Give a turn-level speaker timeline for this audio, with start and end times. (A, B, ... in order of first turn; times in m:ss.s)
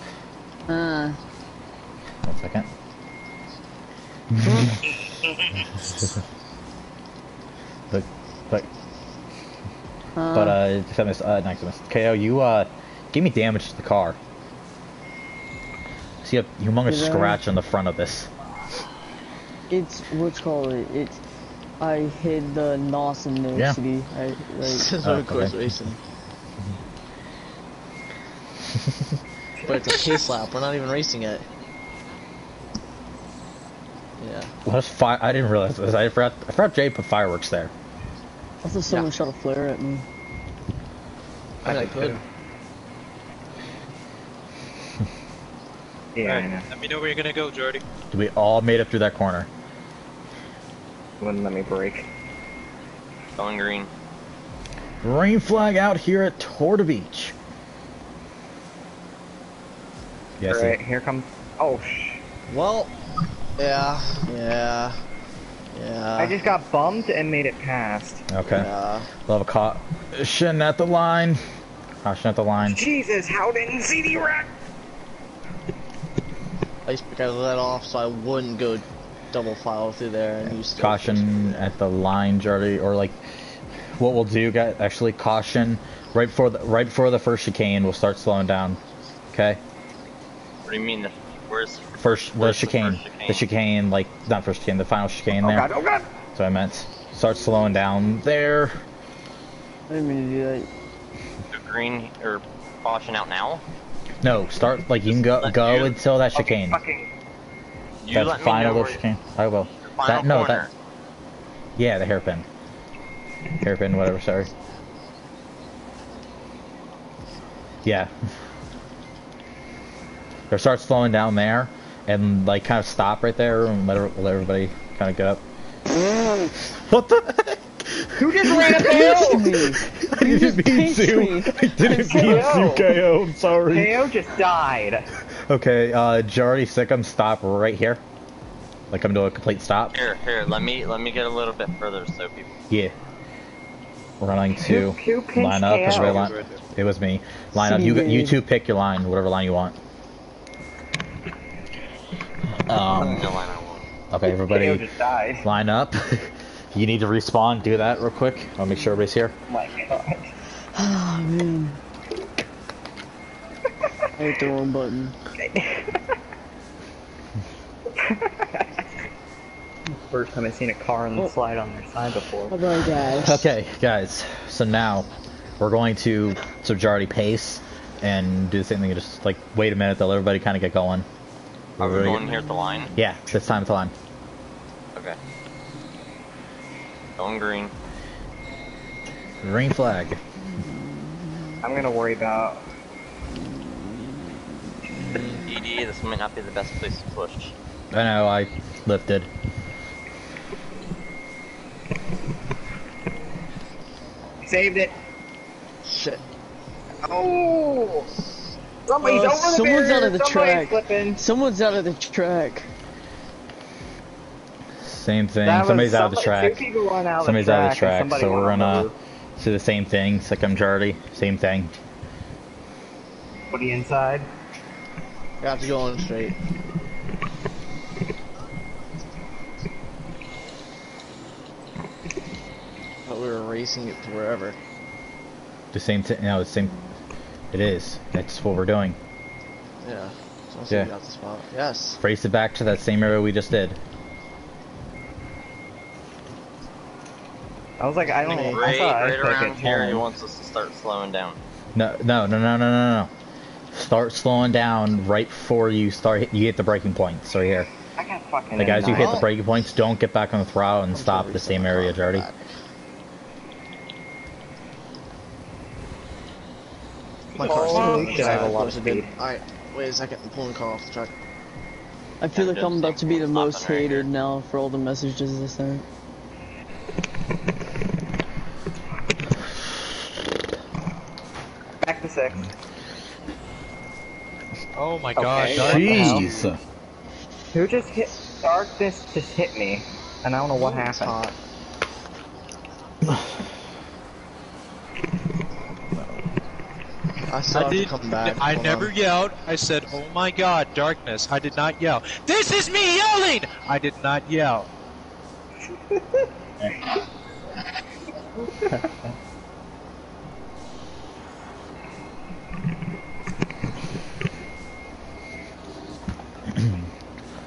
0:00.7-0:01.2 A
0:02.2-0:02.7 B
0:04.3-0:04.7 B
0:04.4-0:04.7 A
0:07.9-0:08.7 B
0:10.1-0:10.6 A
0:10.3-0:14.2 B
0:16.2-0:18.3 B
0:16.8-0:17.4 A
0:19.7-0:21.2 A
0:21.8-0:25.0 A
0:24.6-0:26.0 C
0:25.0-0:25.6 B
0:29.6-0:30.1 D
0:29.6-0:31.4 C
0:34.2-0:34.5 C
0:34.6-0:37.7 B
0:38.6-0:40.0 A
0:41.6-0:42.2 C
0:41.6-0:42.1 D
0:46.1-0:46.7 D
0:46.2-0:47.8 E
0:48.1-0:49.5 B
0:51.2-0:52.1 D
0:53.4-0:53.9 F
0:55.0-0:57.3 B
1:00.4-1:00.8 B
1:00.5-1:02.2 D
1:02.5-1:02.9 C
1:03.6-1:05.0 C
1:05.7-1:06.3 C
1:06.2-1:08.2 D
1:08.3-1:08.7 B
1:08.5-1:09.1 C
1:09.3-1:11.4 B
1:12.0-1:12.8 B
1:12.6-1:14.5 D
1:16.8-1:21.6 C
1:20.5-1:23.2 B
1:24.0-1:28.8 B
1:29.3-1:29.6 B
1:30.6-1:33.5 F
1:32.0-1:35.7 B
1:35.4-1:36.1 D
1:36.3-1:38.8 B
1:39.9-1:40.7 A
1:41.5-1:43.6 F
1:44.2-1:46.8 B
1:45.2-1:45.7 F
1:45.6-1:47.1 D
1:48.0-1:49.0 F
1:48.1-1:50.7 B
1:49.8-1:50.7 F
1:51.8-1:52.4 B
1:53.6-1:54.5 B
1:57.8-1:58.1 B
2:00.5-2:05.4 B
2:06.7-2:08.8 B
2:08.2-2:09.5 D
2:08.8-2:12.6 A
2:09.8-2:13.9 B
2:12.1-2:13.0 D
2:13.7-2:15.0 D
2:15.5-2:18.0 B
2:18.9-2:19.9 B
2:19.9-2:22.6 F
2:24.2-2:29.8 B
2:24.6-2:26.2 D
2:25.9-2:26.6 E
2:27.5-2:28.4 A
2:32.7-2:33.3 B
2:33.0-2:33.8 F
2:34.1-2:34.8 B
2:34.4-2:35.4 D
2:35.4-2:39.3 B
2:39.5-2:40.3 D
2:40.7-2:41.8 A
2:44.2-2:45.1 A
2:45.4-2:46.0 D
2:48.0-2:49.0 D
2:49.9-2:52.5 D
2:52.5-2:53.5 A
2:53.2-2:55.1 B
2:55.6-3:01.0 B
3:01.8-3:02.3 B
3:01.8-3:02.9 F
3:02.9-3:03.9 B
3:07.2-3:07.7 F
3:09.4-3:10.2 B
3:10.6-3:11.6 A
3:11.6-3:12.6 D
3:13.4-3:15.3 A
3:15.1-3:17.5 F
3:17.9-3:19.3 B
3:24.4-3:24.9 D
3:25.8-3:26.2 C
3:27.0-3:28.1 D
3:28.9-3:31.2 D
3:29.0-3:32.7 A
3:34.8-3:36.6 B
3:35.4-3:38.9 D
3:37.2-3:41.7 B
3:43.5-3:44.3 D
3:45.4-3:46.3 C
3:53.0-3:54.6 C
3:55.7-3:56.8 B
3:57.5-3:59.0 B
3:59.8-4:02.0 C
4:02.0-4:03.8 B
4:07.8-4:10.0 D
4:08.1-4:08.7 C
4:08.3-4:11.4 F
4:11.7-4:13.1 B
4:13.7-4:17.7 B
4:18.0-4:19.2 D
4:18.6-4:22.2 B
4:18.8-4:19.3 C
4:20.9-4:22.4 C
4:27.4-4:29.1 D
4:27.4-4:31.1 C
4:27.4-4:28.5 E
4:32.2-4:35.8 A
4:32.3-4:34.1 F
4:41.8-4:42.4 D
4:44.8-4:46.3 E
4:45.2-4:46.4 D
4:45.6-4:46.6 B
4:47.5-4:51.3 D
4:50.6-4:51.3 C
4:57.3-4:58.9 C
4:57.5-5:04.7 E
5:16.5-5:16.8 B